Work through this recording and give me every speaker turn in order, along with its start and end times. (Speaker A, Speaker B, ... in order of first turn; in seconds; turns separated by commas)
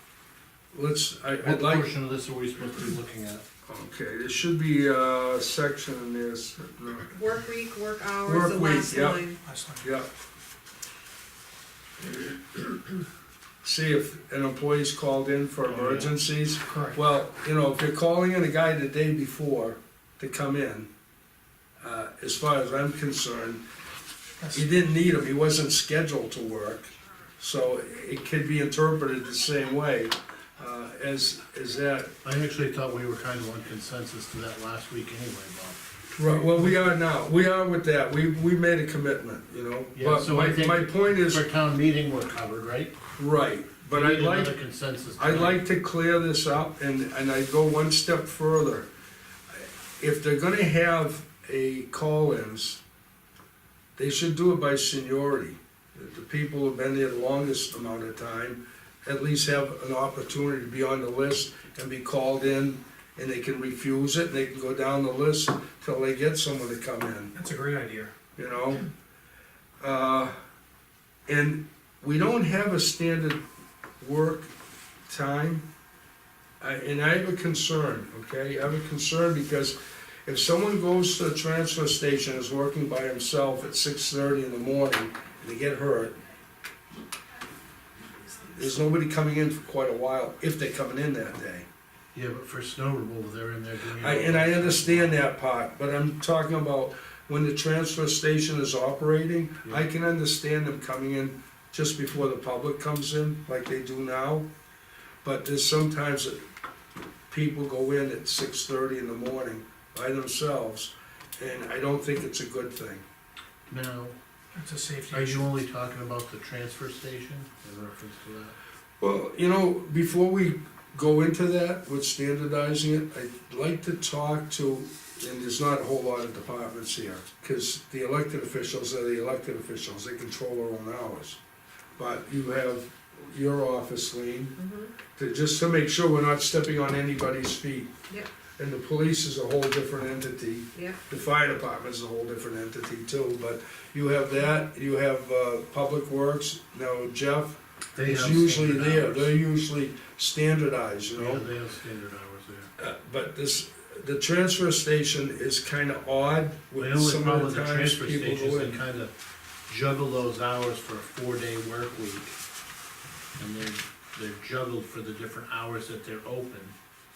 Speaker A: 0.7-1.9, Speaker B: 1.4-3.4, Speaker A: 3.7-7.2, Speaker C: 7.2-9.4, Speaker A: 8.2-9.2, Speaker D: 9.4-9.9, Speaker A: 9.8-10.1, Speaker A: 13.6-20.9, Speaker B: 15.7-16.1, Speaker D: 16.7-17.0, Speaker A: 21.8-23.6, Speaker D: 24.4-24.7, Speaker A: 24.5-32.1, Speaker B: 32.2-35.9, Speaker A: 36.1-41.4, Speaker B: 39.9-43.0, Speaker A: 43.2-44.5, Speaker B: 43.9-45.6, Speaker A: 45.2-48.9, Speaker A: 49.6-52.8, Speaker A: 54.0-67.3, Speaker D: 67.3-68.1, Speaker A: 68.4-68.8, Speaker A: 69.8-70.3, Speaker A: 71.3-73.4, Speaker A: 74.0-74.5, Speaker A: 75.1-75.7, Speaker A: 76.6-86.2, Speaker A: 88.5-91.7, Speaker B: 92.1-95.2, Speaker A: 94.0-104.5, Speaker A: 105.2-106.4, Speaker A: 107.3-113.0, Speaker B: 113.7-114.2, Speaker D: 114.5-115.5, Speaker B: 115.1-118.5, Speaker A: 119.0-131.4, Speaker A: 132.0-134.6, Speaker C: 134.6-134.9, Speaker A: 135.1-137.9, Speaker A: 138.6-151.4, Speaker C: 140.7-141.0, Speaker B: 147.9-149.3, Speaker B: 151.1-152.7, Speaker A: 152.8-158.8, Speaker B: 156.8-159.1, Speaker B: 159.7-162.3, Speaker B: 163.4-166.7